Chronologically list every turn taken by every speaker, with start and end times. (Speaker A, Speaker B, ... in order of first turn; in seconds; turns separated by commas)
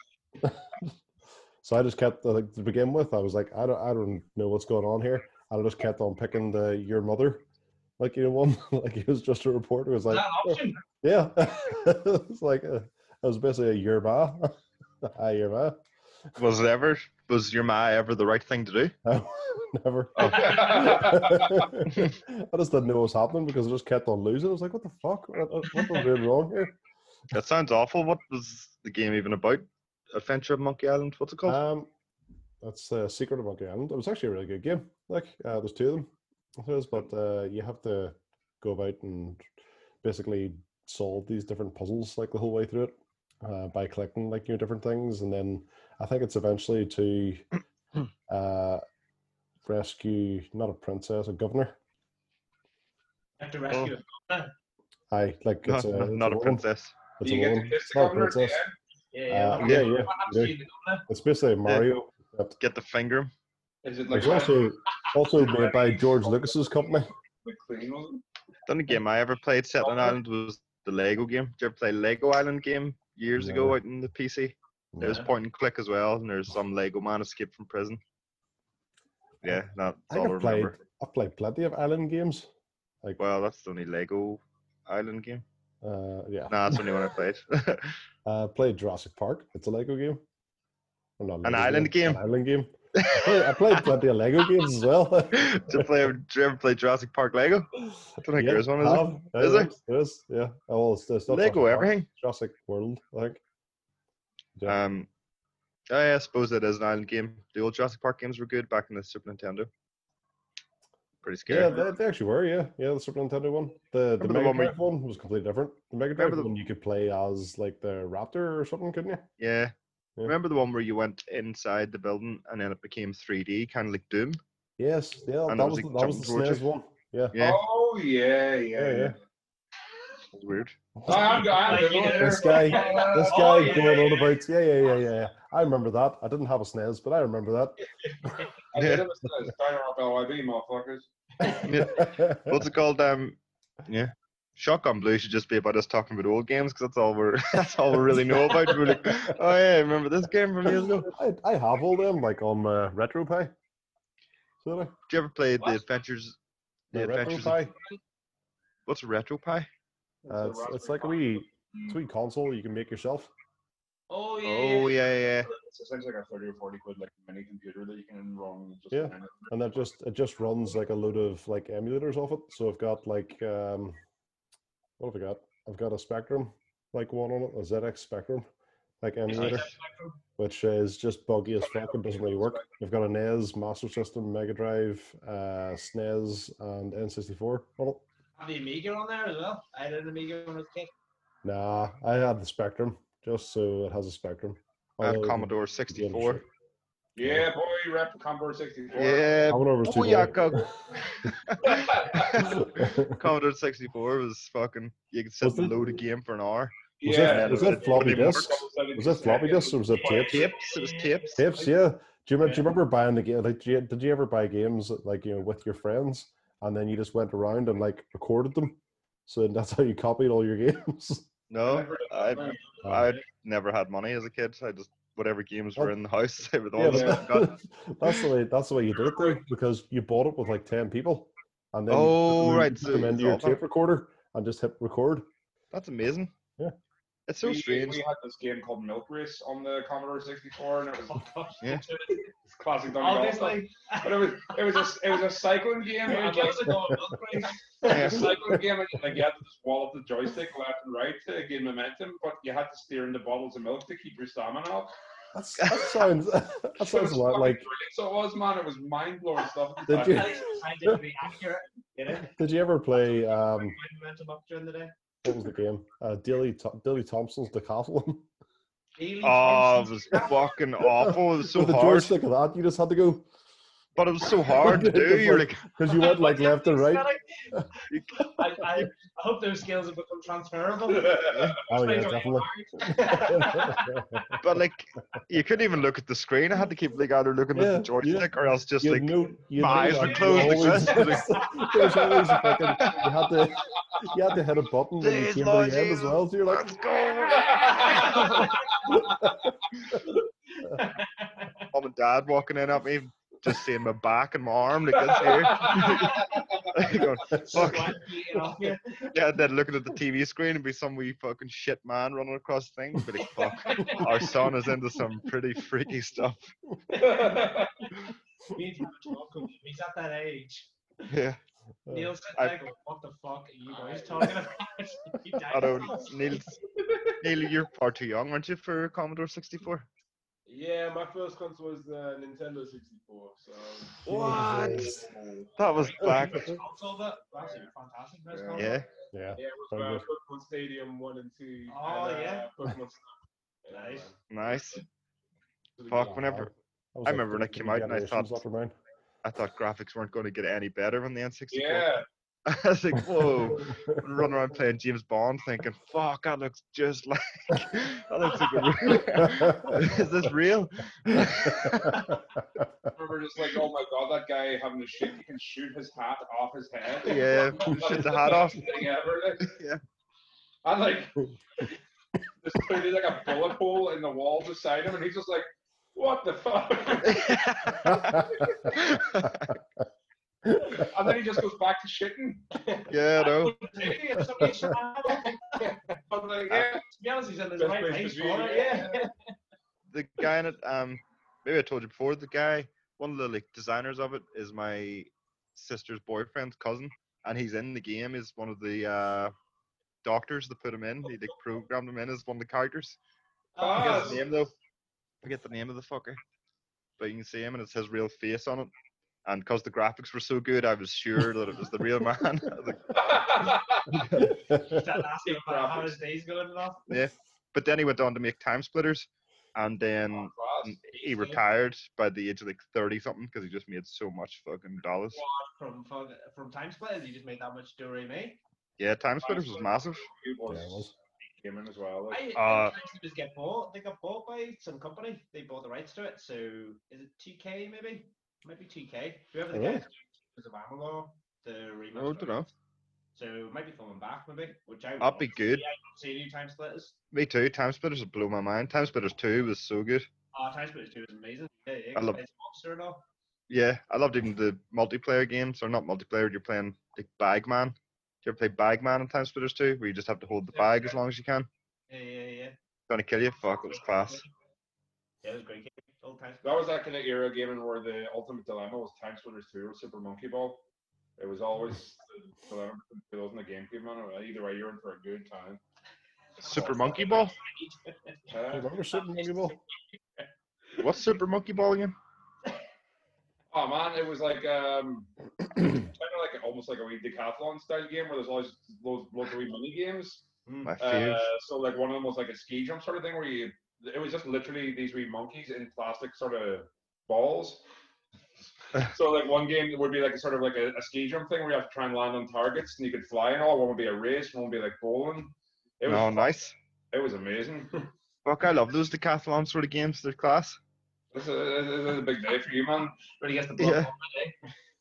Speaker A: 0.4-0.9, Speaker A: 1.6-7.4, Speaker A: 8.0-15.8, Speaker B: 10.1-10.8, Speaker C: 16.4-18.9, Speaker A: 19.0-26.8, Speaker C: 20.2-21.0, Speaker D: 20.3-21.5, Speaker C: 27.3-31.6, Speaker A: 31.4-31.9, Speaker A: 32.6-39.4, Speaker A: 40.0-47.5, Speaker A: 48.3-48.8, Speaker A: 49.6-51.8, Speaker B: 53.4-54.5, Speaker A: 55.1-56.6, Speaker C: 55.6-57.0, Speaker A: 57.2-58.6, Speaker D: 57.2-58.7, Speaker B: 59.1-61.1, Speaker A: 59.3-60.5, Speaker C: 59.6-59.9, Speaker A: 61.1-62.5, Speaker C: 61.6-61.9, Speaker C: 62.6-63.3, Speaker D: 63.8-64.7, Speaker A: 64.1-67.1, Speaker D: 65.3-68.2, Speaker C: 68.7-78.0, Speaker D: 69.8-70.2, Speaker A: 73.3-73.8, Speaker A: 74.9-75.3, Speaker B: 75.0-75.3, Speaker C: 79.4-80.8, Speaker A: 80.1-82.5, Speaker C: 83.2-85.4, Speaker A: 85.8-86.8, Speaker C: 86.5-88.0, Speaker A: 88.2-90.2, Speaker A: 91.2-95.9, Speaker C: 91.4-92.2, Speaker C: 93.0-93.8, Speaker C: 95.3-99.7, Speaker A: 98.4-103.4, Speaker C: 101.3-102.1, Speaker C: 104.6-105.1, Speaker C: 105.9-109.7, Speaker C: 111.2-111.8, Speaker A: 111.5-119.3, Speaker C: 114.2-114.8, Speaker C: 116.2-116.5, Speaker C: 119.4-119.7, Speaker C: 120.2-124.4, Speaker A: 124.8-127.3, Speaker C: 125.5-126.6, Speaker C: 127.3-127.6, Speaker D: 127.4-129.2, Speaker A: 128.7-129.2, Speaker C: 130.3-130.8, Speaker A: 131.0-137.8, Speaker D: 131.1-133.9, Speaker B: 131.1-134.3, Speaker D: 138.7-141.5, Speaker C: 138.8-139.1, Speaker C: 141.6-151.1, Speaker A: 141.9-142.6, Speaker A: 150.7-153.5, Speaker A: 154.6-154.9, Speaker C: 155.1-156.4, Speaker C: 156.9-157.7, Speaker A: 156.9-157.7, Speaker C: 158.9-159.7, Speaker D: 160.2-162.0, Speaker A: 160.3-163.3, Speaker B: 164.1-165.5, Speaker C: 164.4-165.5, Speaker D: 165.5-169.8, Speaker A: 168.9-174.0, Speaker A: 175.0-178.5, Speaker A: 179.0-179.7, Speaker B: 179.3-180.2, Speaker C: 179.3-179.7, Speaker A: 180.4-188.0, Speaker D: 181.6-182.7, Speaker B: 188.4-190.9, Speaker A: 191.4-196.4, Speaker C: 195.0-196.4, Speaker D: 197.2-199.5, Speaker C: 198.9-208.6, Speaker A: 199.5-201.3, Speaker D: 201.6-202.5, Speaker A: 202.4-203.2, Speaker A: 205.4-205.9, Speaker D: 207.0-210.5, Speaker A: 207.0-210.5, Speaker B: 210.0-211.7, Speaker C: 210.1-211.5, Speaker A: 211.3-221.3, Speaker C: 221.5-227.6, Speaker D: 221.6-222.6, Speaker B: 222.7-223.2, Speaker A: 222.8-223.1, Speaker A: 226.7-235.2, Speaker D: 226.8-227.2, Speaker C: 231.9-233.6, Speaker C: 235.7-236.3, Speaker C: 237.3-238.0, Speaker D: 237.4-241.2, Speaker B: 241.1-242.3, Speaker D: 242.5-246.9, Speaker B: 243.0-245.2, Speaker B: 246.0-248.2, Speaker D: 247.8-254.9, Speaker C: 247.9-248.4, Speaker A: 248.3-248.6, Speaker A: 255.3-257.7, Speaker C: 255.6-256.0, Speaker D: 256.8-260.3, Speaker A: 259.9-261.0, Speaker B: 260.0-262.3, Speaker A: 262.2-263.8, Speaker B: 263.4-264.9, Speaker A: 265.2-268.2, Speaker B: 269.0-270.5, Speaker C: 269.2-272.1, Speaker A: 271.0-273.3, Speaker C: 273.9-275.7, Speaker A: 274.4-277.7, Speaker B: 275.9-283.9, Speaker C: 277.9-278.8, Speaker C: 281.3-281.6, Speaker A: 281.7-284.4, Speaker C: 284.4-291.5, Speaker A: 287.5-296.8, Speaker B: 289.7-291.9, Speaker D: 292.3-292.9, Speaker C: 295.0-298.5, Speaker D: 297.4-298.5, Speaker B: 297.6-298.9, Speaker A: 299.0-299.3, Speaker B: 300.6-301.7, Speaker C: 301.7-308.0, Speaker D: 305.6-306.0, Speaker B: 305.8-306.2, Speaker B: 307.3-309.1, Speaker C: 309.1-316.5, Speaker B: 313.2-314.3, Speaker B: 316.9-317.9, Speaker D: 317.0-317.7, Speaker B: 318.5-320.7, Speaker C: 321.1-321.4, Speaker A: 321.9-322.1, Speaker B: 321.9-326.4, Speaker E: 323.7-324.4, Speaker C: 325.5-326.6, Speaker C: 327.1-329.9, Speaker E: 330.4-335.4, Speaker C: 334.0-335.0, Speaker A: 334.1-334.9, Speaker C: 335.6-336.6, Speaker B: 335.7-338.8, Speaker D: 338.3-338.7, Speaker C: 338.5-338.9, Speaker A: 339.1-340.1, Speaker E: 339.4-344.2, Speaker B: 341.7-342.5, Speaker B: 343.7-344.1, Speaker C: 344.3-344.8, Speaker E: 345.8-346.1, Speaker C: 345.9-346.5, Speaker A: 346.1-348.7, Speaker C: 347.0-348.4, Speaker C: 349.2-362.1, Speaker D: 351.5-352.0, Speaker B: 358.4-359.2, Speaker A: 359.1-359.9, Speaker A: 361.1-362.6, Speaker D: 362.9-369.6, Speaker C: 367.0-368.8, Speaker C: 369.4-369.8, Speaker D: 370.6-371.7, Speaker D: 372.4-377.5, Speaker C: 377.0-379.5, Speaker A: 377.9-378.2, Speaker D: 378.0-378.6, Speaker A: 380.4-380.9, Speaker D: 380.7-382.5, Speaker C: 382.9-383.6, Speaker B: 383.1-385.6, Speaker A: 384.4-384.7, Speaker E: 385.6-386.2, Speaker D: 386.1-386.8, Speaker B: 386.8-389.1, Speaker E: 387.6-388.9, Speaker C: 389.9-399.3, Speaker C: 400.0-403.0, Speaker B: 403.6-404.2, Speaker D: 403.6-404.2, Speaker C: 403.7-404.5, Speaker C: 405.2-406.2, Speaker C: 407.0-408.7, Speaker C: 409.2-413.2, Speaker D: 412.9-414.0, Speaker A: 414.0-414.8, Speaker B: 414.5-416.9, Speaker D: 415.2-415.9, Speaker C: 416.9-425.2, Speaker D: 420.1-420.8, Speaker B: 420.9-421.4, Speaker B: 425.1-428.4, Speaker C: 428.8-430.1, Speaker D: 429.2-430.9, Speaker A: 430.5-430.9, Speaker D: 431.4-432.2, Speaker B: 432.1-442.5, Speaker C: 432.3-432.7, Speaker A: 439.5-439.8, Speaker C: 441.9-442.5, Speaker B: 443.1-446.9, Speaker C: 445.0-445.6, Speaker C: 447.1-450.1, Speaker B: 450.3-453.0, Speaker C: 451.9-452.2, Speaker C: 453.5-461.5, Speaker B: 460.5-461.0, Speaker B: 461.9-462.5, Speaker C: 462.9-464.2, Speaker B: 463.7-464.3, Speaker B: 465.2-466.6, Speaker D: 466.4-470.6, Speaker D: 471.2-475.6, Speaker C: 476.4-477.3, Speaker B: 476.4-478.3, Speaker D: 478.3-478.7, Speaker A: 478.5-479.6, Speaker B: 478.9-480.2, Speaker C: 480.8-481.9, Speaker D: 483.5-490.2, Speaker B: 490.4-490.7, Speaker C: 490.6-491.2, Speaker D: 490.8-497.6, Speaker D: 498.8-506.4, Speaker C: 505.9-506.5, Speaker D: 506.9-507.8, Speaker C: 508.2-510.6, Speaker D: 511.1-513.0, Speaker B: 513.1-514.4, Speaker C: 513.6-513.9